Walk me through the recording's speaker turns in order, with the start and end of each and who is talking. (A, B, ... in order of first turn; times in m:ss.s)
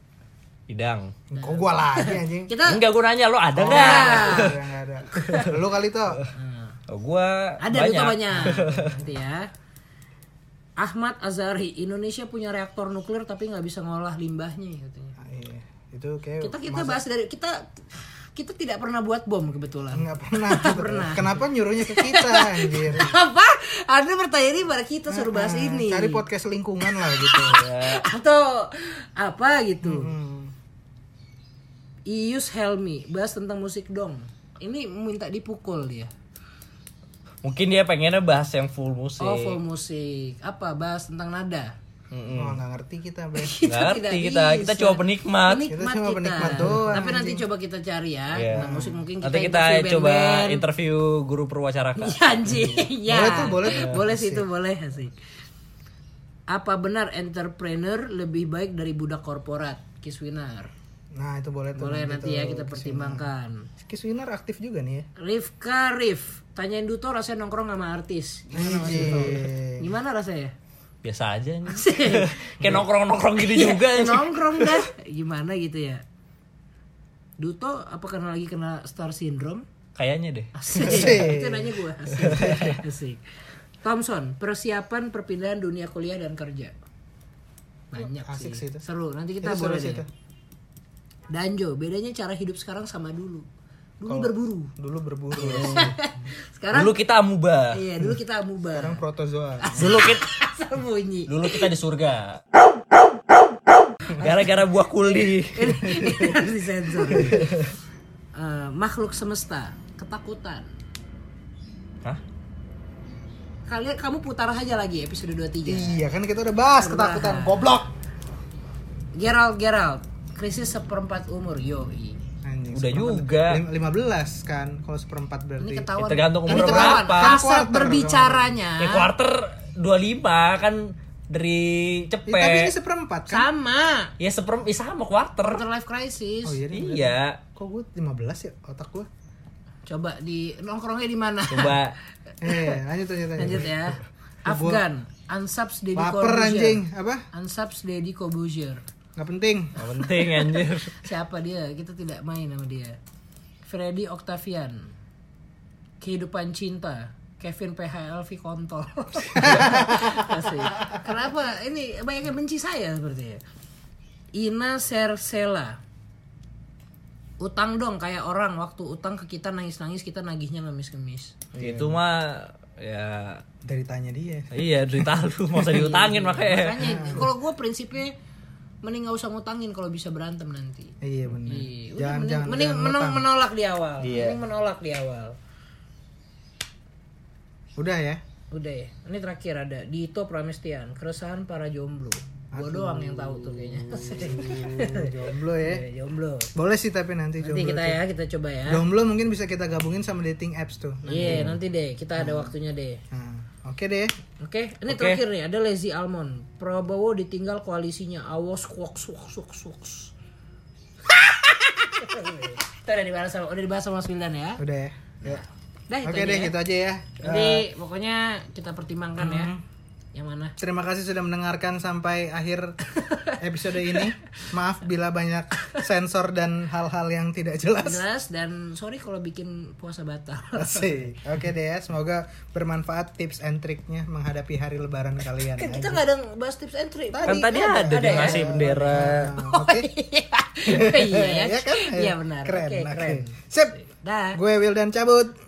0:00.7-0:01.1 A
0:01.3-0:02.6 B
0:01.3-0:02.8 C
0:02.6-0:04.6 A
0:03.6-0:06.2 B
0:03.7-0:04.5 C
0:05.1-0:05.5 C
0:05.2-0:05.5 A
0:06.3-0:06.8 C
0:06.9-0:08.9 A
0:07.6-0:09.5 C
0:10.8-0:15.2 C
0:15.2-0:17.0 B
0:16.4-0:26.2 C
0:19.9-0:23.1 B
0:25.1-0:27.6 B
0:26.9-0:30.1 C
0:27.4-0:28.0 A
0:29.8-0:30.5 B
0:32.1-0:36.1 C
0:37.4-0:39.6 A
0:39.2-0:41.7 C
0:42.1-0:42.6 A
0:42.3-0:43.6 B
0:43.4-0:50.6 C
0:43.6-0:45.7 A
0:45.7-0:47.4 B
0:46.4-0:46.9 A
0:48.3-0:48.7 A
0:48.5-0:49.0 B
0:49.2-0:52.7 A
0:52.0-0:55.1 C
0:53.0-0:54.4 B
0:53.7-0:53.9 A
0:56.5-1:00.7 C
1:01.1-1:03.3 B
1:01.8-1:03.7 C
1:03.8-1:05.1 B
1:05.2-1:10.5 C
1:08.5-1:09.9 B
1:11.0-1:14.7 A
1:11.7-1:12.4 C
1:13.4-1:16.0 C
1:17.4-1:19.6 C
1:20.0-1:21.3 A
1:20.6-1:23.2 C
1:20.8-1:22.8 B
1:22.1-1:22.8 A
1:23.8-1:26.7 C
1:27.9-1:30.0 C
1:28.0-1:28.8 B
1:29.4-1:30.1 B
1:31.3-1:33.4 C
1:34.0-1:34.7 C
1:34.1-1:36.0 B
1:35.4-1:37.0 C
1:35.4-1:35.9 A
1:36.7-1:37.8 A
1:37.7-1:39.0 C
1:38.7-1:40.0 B
1:39.6-1:41.7 C
1:39.8-1:40.2 A
1:41.3-1:42.4 A
1:44.1-1:46.0 A
1:45.0-1:47.5 C
1:47.1-1:47.6 B
1:47.2-1:47.7 A
1:48.4-1:50.7 C
1:53.7-1:56.0 C
1:55.6-1:57.9 B
1:56.8-1:57.6 C
1:59.2-2:02.2 C
2:02.4-2:05.9 B
2:02.7-2:03.6 A
2:05.6-2:09.1 C
2:06.0-2:07.4 A
2:06.4-2:08.5 B
2:08.8-2:12.7 A
2:12.3-2:13.5 B
2:13.3-2:14.1 C
2:14.2-2:15.6 A
2:15.4-2:16.7 C
2:16.4-2:19.1 B
2:16.7-2:17.4 A
2:19.9-2:21.8 C
2:21.5-2:22.0 A
2:22.4-2:23.7 B
2:22.5-2:22.7 C
2:23.4-2:28.8 C
2:24.4-2:24.8 B
2:26.0-2:27.2 B
2:29.2-2:29.9 B
2:29.8-2:31.0 A
2:30.9-2:33.0 C
2:33.6-2:34.9 C
2:36.0-2:43.4 C
2:39.4-2:40.4 B
2:44.3-2:45.8 C
2:47.4-2:51.4 C
2:51.5-2:52.0 B
2:51.6-2:53.4 A
2:53.6-2:55.2 B
2:54.5-2:56.8 A
2:55.6-2:58.1 C
2:56.8-2:57.3 B
2:58.8-3:01.0 C
3:01.0-3:03.3 B
3:01.4-3:05.4 C
3:04.0-3:04.4 A
3:07.8-3:08.2 B
3:08.5-3:16.5 C
3:12.5-3:15.8 B
3:16.6-3:18.0 B
3:17.4-3:18.8 C
3:18.7-3:21.6 B
3:21.0-3:23.0 C
3:21.2-3:21.6 A
3:22.2-3:22.5 B
3:23.1-3:24.1 B
3:24.4-3:30.1 C
3:24.9-3:25.2 A
3:31.1-3:34.6 C
3:34.6-3:35.4 B
3:35.2-3:36.6 C
3:36.0-3:37.6 B
3:37.2-3:39.5 C
3:39.2-3:39.6 B
3:40.1-3:40.6 C
3:40.6-3:42.8 B
3:42.9-3:43.4 C
3:43.4-3:48.0 B
3:47.8-3:50.9 C
3:50.6-3:56.0 B
3:55.4-4:04.4 C
3:57.1-3:59.9 B
3:57.3-3:59.3 A
4:00.6-4:03.7 B
4:04.3-4:05.4 B